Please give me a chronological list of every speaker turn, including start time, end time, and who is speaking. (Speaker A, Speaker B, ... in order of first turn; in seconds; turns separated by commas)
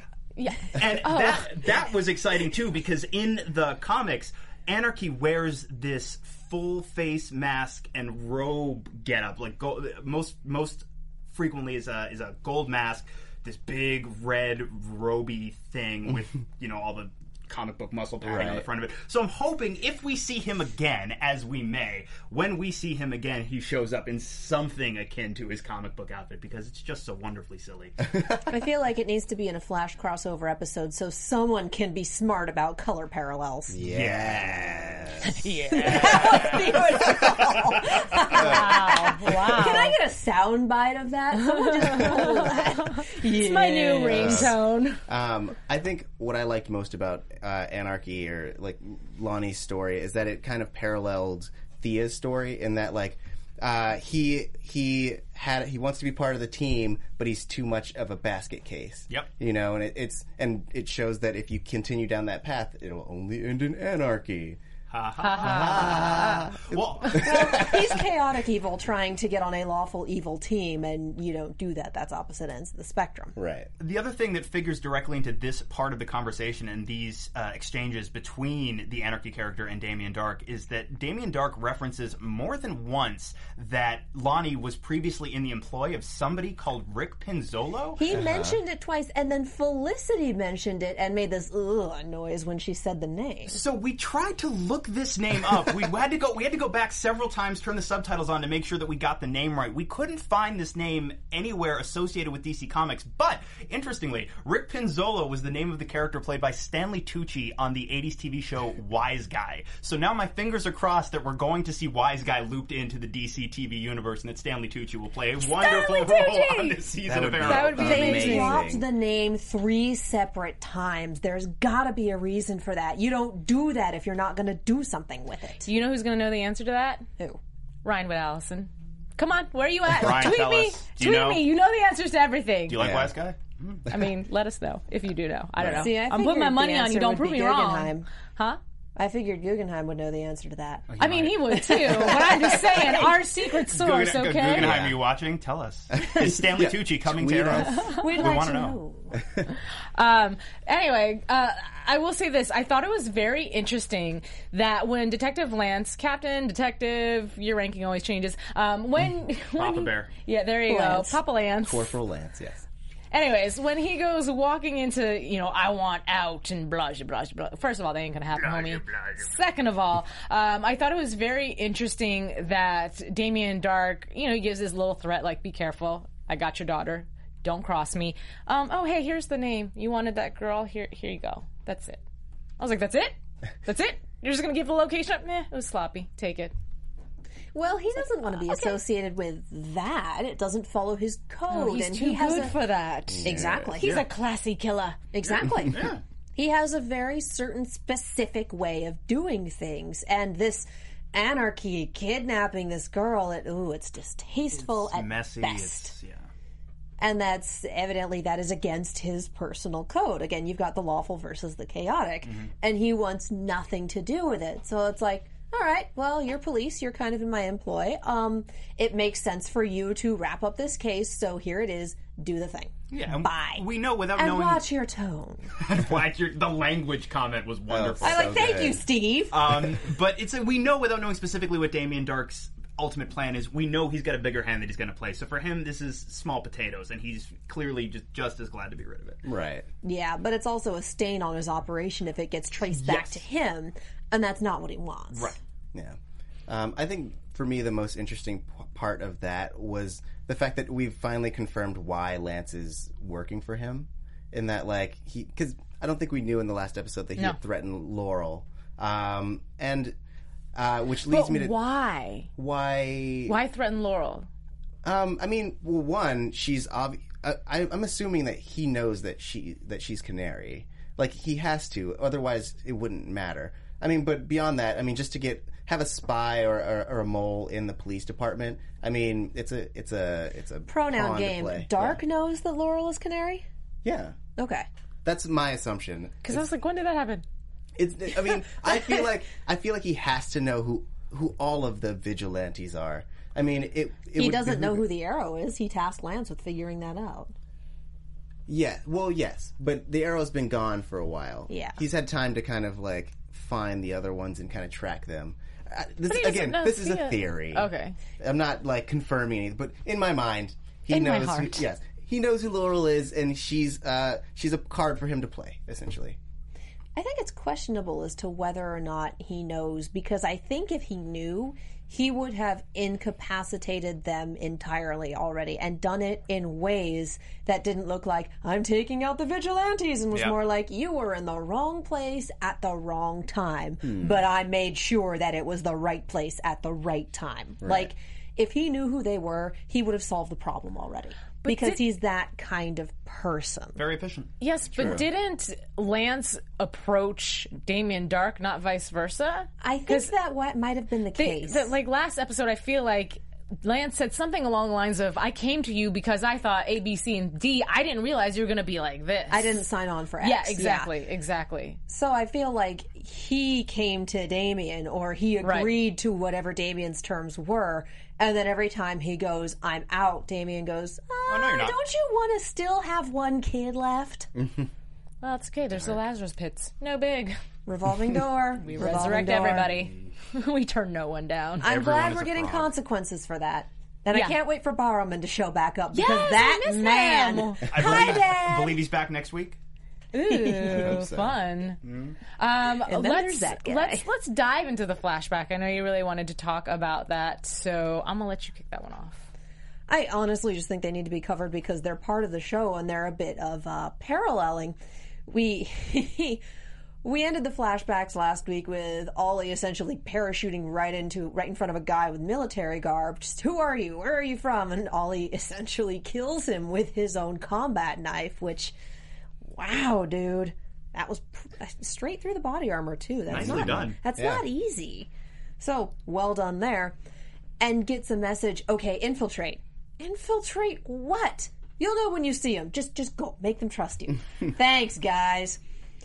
Speaker A: 0.3-1.5, Speaker B: 0.8-28.1, Speaker C: 18.2-18.6, Speaker D: 28.5-33.8, Speaker C: 33.7-35.4, Speaker B: 33.9-35.2, Speaker A: 35.2-36.6, Speaker D: 35.7-44.4, Speaker B: 35.8-37.0, Speaker C: 37.0-37.4, Speaker A: 38.3-40.0, Speaker C: 38.3-38.7, Speaker A: 41.4-45.0, Speaker C: 44.0-44.5, Speaker C: 45.1-64.6, Speaker B: 64.9-67.8, Speaker A: 65.2-66.2, Speaker C: 65.4-68.0, Speaker D: 67.1-73.3, Speaker C: 73.3-73.7, Speaker B: 73.8-88.0, Speaker D: 88.0-93.6, Speaker C: 88.1-88.6, Speaker B: 93.5-118.3, Speaker A: 115.4-116.8, Speaker C: 117.0-118.9, Speaker A: 117.4-118.6, Speaker D: 117.5-125.7, Speaker A: 125.6-127.0, Speaker A: 127.8-132.8, Speaker B: 129.9-131.4, Speaker B: 132.7-133.8, Speaker C: 132.8-133.1, Speaker A: 133.9-138.6, Speaker C: 135.6-135.8, Speaker D: 135.8-138.1, Speaker D: 138.9-140.9, Speaker B: 140.9-141.4, Speaker A: 141.0-144.7, Speaker D: 141.5-143.2, Speaker B: 143.7-148.8, Speaker C: 144.5-145.0, Speaker C: 145.9-147.8, Speaker A: 147.7-148.0, Speaker D: 147.9-149.2, Speaker A: 149.9-161.9, Speaker B: 159.6-160.1, Speaker D: 160.7-161.2, Speaker C: 161.6-162.6, Speaker A: 163.1-182.0, Speaker B: 168.4-169.3, Speaker A: 182.6-186.5, Speaker D: 187.5-192.6, Speaker A: 188.2-188.8, Speaker A: 191.5-195.0, Speaker C: 193.1-193.8, Speaker D: 193.2-194.0, Speaker D: 195.1-205.9, Speaker B: 195.4-196.0, Speaker B: 204.5-206.2, Speaker D: 207.0-223.6, Speaker B: 212.2-212.5, Speaker B: 222.9-224.6, Speaker D: 224.2-225.5, Speaker B: 225.6-228.7, Speaker C: 227.7-228.8, Speaker D: 228.0-229.4, Speaker B: 229.3-239.2, Speaker C: 239.2-239.7, Speaker D: 239.8-245.3, Speaker B: 242.7-243.2, Speaker B: 245.1-245.4, Speaker C: 245.7-259.9, Speaker C: 260.5-261.5, Speaker A: 261.1-262.3, Speaker C: 262.3-263.4, Speaker A: 263.3-264.3, Speaker C: 264.8-282.0, Speaker D: 280.7-283.4, Speaker C: 283.8-284.2, Speaker D: 284.4-284.7, Speaker C: 285.0-286.5, Speaker A: 286.2-287.2, Speaker C: 287.8-294.9, Speaker D: 294.1-297.3, Speaker C: 298.5-316.2, Speaker D: 301.5-301.8, Speaker A: 306.1-307.9, Speaker A: 310.9-311.6, Speaker D: 316.9-343.8, Speaker C: 333.8-334.2, Speaker C: 337.6-337.9, Speaker A: 341.4-341.8, Speaker B: 343.8-344.3, Speaker A: 344.4-350.1, Speaker C: 344.7-345.0, Speaker D: 349.6-351.7, Speaker A: 351.1-359.5, Speaker D: 359.3-360.9, Speaker A: 360.2-361.8, Speaker D: 361.9-374.3, Speaker A: 365.4-365.7, Speaker B: 371.3-371.8, Speaker C: 374.4-374.7, Speaker A: 375.2-377.4, Speaker D: 377.6-379.8, Speaker B: 378.6-380.1, Speaker A: 378.6-381.7, Speaker D: 381.6-388.8, Speaker B: 381.6-382.7, Speaker A: 384.1-384.4, Speaker A: 385.9-387.9, Speaker B: 387.7-389.6, Speaker A: 390.1-391.8, Speaker D: 390.6-390.9, Speaker C: 390.6-391.4, Speaker B: 391.8-392.2, Speaker A: 392.4-399.2, Speaker D: 392.9-394.1, Speaker D: 399.9-404.8, Speaker D: 405.3-406.4, Speaker D: 407.0-418.7, Speaker D: 419.5-425.1, Speaker B: 423.3-424.0, Speaker C: 423.3-424.4, Speaker D: 425.6-426.9, Speaker D: 427.6-435.6